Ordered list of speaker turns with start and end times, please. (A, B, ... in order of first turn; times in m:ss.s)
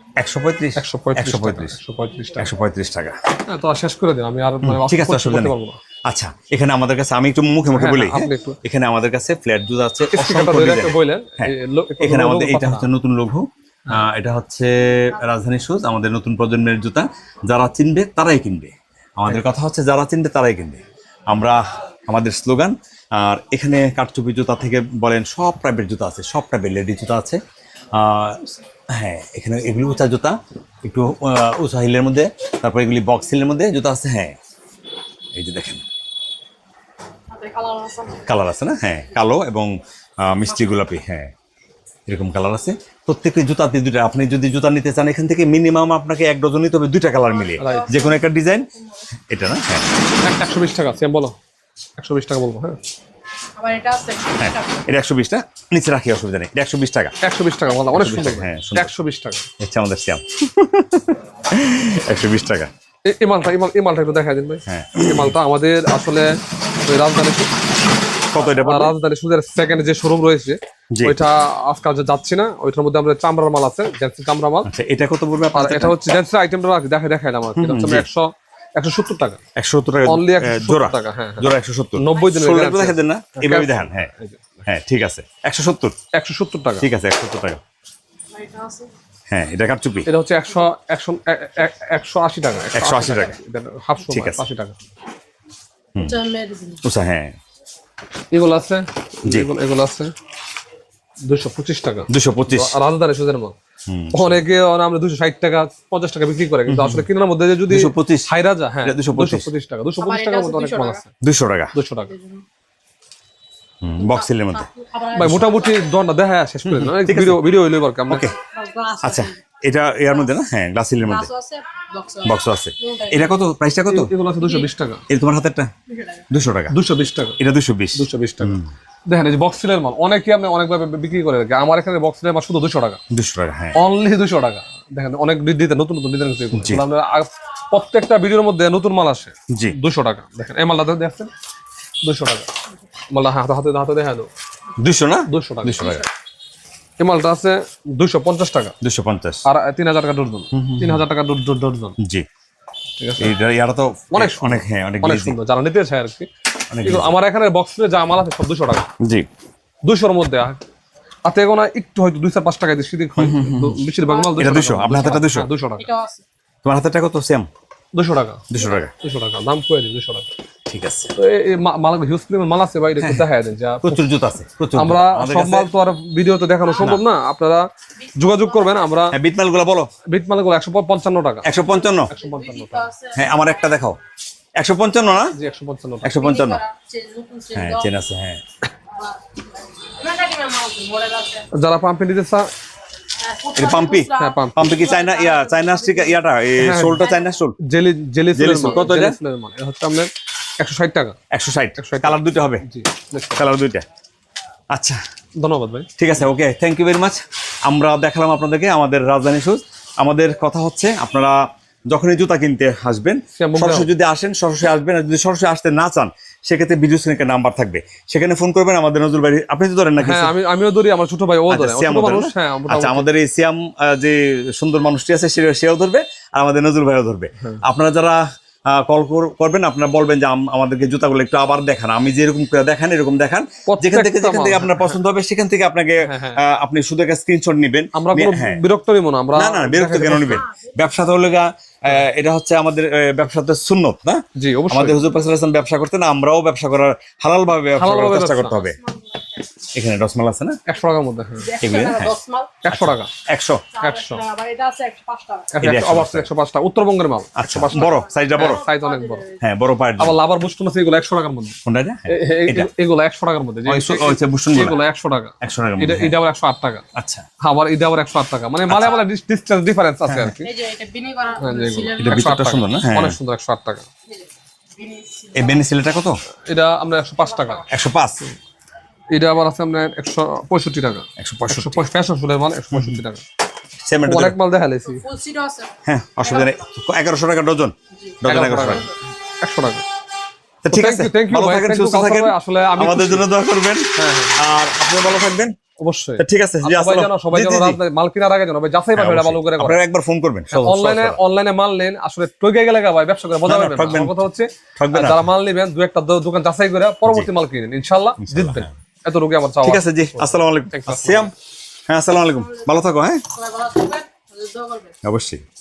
0:00.2-0:01.8 A
0:00.8-0:02.5 B
0:02.4-0:03.2 A
0:03.5-0:05.8 B
0:04.6-0:05.6 A
0:06.1-0:27.4 A
0:07.7-0:08.6 B
0:10.1-0:12.9 B
0:27.9-0:34.4 A
0:35.3-0:35.8 A
0:37.3-0:38.2 C
0:38.2-0:41.3 A
0:42.1-0:49.9 A
0:47.5-0:48.2 C
0:47.6-0:48.0 B
0:50.2-0:51.4 B
0:52.0-0:52.8 B
0:53.6-0:54.8 C
0:54.4-0:57.2 A
0:57.2-0:59.5 B
0:57.9-0:58.9 A
0:59.6-1:02.7 A
1:03.0-1:07.6 B
1:04.7-1:05.4 A
1:08.3-1:09.0 A
1:08.6-1:14.7 B
1:10.9-1:11.2 A
1:14.7-1:16.0 A
1:15.5-1:19.4 B
1:17.5-1:18.0 A
1:19.6-1:24.1 A
1:20.0-1:24.6 B
1:24.6-1:26.0 A
1:26.1-1:26.9 B
1:26.8-1:27.6 A
1:28.3-1:28.9 C
1:29.3-1:30.1 A
1:30.0-1:34.8 B
1:32.7-1:33.4 A
1:34.1-1:34.4 A
1:35.9-1:36.2 A
1:36.0-1:36.8 C
1:36.8-1:37.4 A
1:38.3-1:40.1 B
1:39.2-1:39.5 A
1:41.2-1:43.5 B
1:42.1-1:42.7 A
1:43.9-1:44.4 A
1:44.1-1:51.1 B
1:46.7-1:47.1 A
1:47.7-1:48.3 A
1:48.8-1:49.5 A
1:50.0-1:51.0 C
1:51.2-1:51.7 A
1:51.7-1:52.1 B
1:52.1-1:52.4 C
1:53.8-1:55.5 A
1:54.0-1:55.9 C
1:55.1-1:58.3 B
1:56.6-1:57.4 A
1:58.1-1:58.4 A
1:58.4-1:59.3 C
1:59.0-2:01.3 A
2:01.0-2:03.3 C
2:02.2-2:04.1 A
2:03.9-2:05.0 B
2:05.1-2:05.7 A
2:06.3-2:06.7 A
2:06.7-2:07.4 B
2:07.4-2:08.7 A
2:07.9-2:13.0 B
2:13.1-2:13.8 A
2:13.8-2:21.3 B
2:16.5-2:16.8 A
2:19.5-2:19.8 A
2:22.0-2:22.5 B
2:23.1-2:24.3 B
2:24.8-2:26.0 A
2:25.3-2:26.0 B
2:27.0-2:28.7 B
2:28.8-2:29.4 A
2:29.5-2:32.0 B
2:30.5-2:31.0 A
2:32.0-2:32.3 A
2:33.0-2:33.4 B
2:33.2-2:35.4 A
2:34.1-2:36.3 B
2:36.7-2:37.1 A
2:36.8-2:38.8 B
2:39.0-2:39.3 A
2:39.8-2:40.6 B
2:41.2-2:45.9 B
2:43.2-2:43.8 A
2:44.1-2:44.5 C
2:44.4-2:45.5 A
2:45.8-2:46.2 C
2:46.6-2:47.5 A
2:47.9-2:50.3 B
2:48.5-2:48.9 A
2:50.7-2:51.1 A
2:51.2-2:54.0 B
2:53.0-2:53.3 A
2:53.8-2:55.7 A
2:54.8-2:59.2 B
2:59.1-2:59.9 A
3:00.0-3:02.9 B
3:01.4-3:02.1 A
3:01.8-3:03.2 C
3:03.1-3:04.0 A
3:04.6-3:05.3 A
3:05.3-3:06.3 B
3:06.0-3:06.6 A
3:06.2-3:07.9 C
3:07.5-3:08.4 A
3:09.8-3:11.5 C
3:11.5-3:12.5 B
3:13.2-3:16.2 C
3:13.5-3:17.6 A
3:14.1-3:14.9 B
3:16.6-3:17.1 B
3:17.6-3:21.2 B
3:18.3-3:19.2 A
3:21.3-3:22.6 A
3:21.8-3:23.4 B
3:23.4-3:23.8 A
3:24.7-3:25.0 A
3:25.4-3:25.9 B
3:26.0-3:31.4 A
3:31.9-3:40.4 A
3:33.4-3:33.9 B
3:40.0-3:43.1 B
3:41.5-3:58.6 A
3:53.7-3:55.0 B
3:56.0-3:56.4 B
3:57.9-4:00.5 B
3:59.3-4:08.8 A
4:04.4-4:05.0 B
4:07.8-4:08.7 B
4:08.8-4:09.4 C
4:09.7-4:10.6 A
4:10.7-4:11.6 B
4:11.4-4:12.5 C
4:11.6-4:13.6 A
4:12.6-4:13.1 B
4:13.7-4:15.5 C
4:13.8-4:14.2 B
4:15.5-4:19.3 B
4:15.6-4:16.3 A
4:17.4-4:18.7 A
4:17.8-4:19.4 C
4:19.4-4:20.2 A
4:20.0-4:26.8 B
4:21.6-4:22.7 A
4:23.6-4:24.8 A
4:25.4-4:26.2 A
4:26.9-4:27.2 A
4:27.4-4:30.5 B
4:28.7-4:29.0 A
4:30.1-4:30.4 A
4:30.4-4:32.2 C
4:31.4-4:33.9 B
4:32.0-4:33.2 A
4:34.8-4:35.6 C
4:35.3-4:36.2 A
4:36.5-4:37.7 B
4:37.7-4:38.3 A
4:39.1-4:43.2 B
4:41.2-4:41.9 A
4:42.7-4:43.0 A
4:43.8-4:44.4 A
4:44.0-4:45.1 B
4:44.8-4:45.7 C
4:45.8-4:48.9 A
4:48.2-4:49.8 B
4:50.6-4:55.6 A
4:50.7-4:53.2 B
4:54.0-4:54.4 B
4:55.8-4:59.8 B
4:56.2-4:57.8 A
4:58.9-5:01.2 A
5:00.5-5:11.3 B
5:03.4-5:04.2 A
5:04.8-5:05.3 A
5:08.2-5:08.7 A
5:09.6-5:11.3 A
5:11.9-5:13.2 A
5:13.3-5:15.0 C
5:15.0-5:15.4 A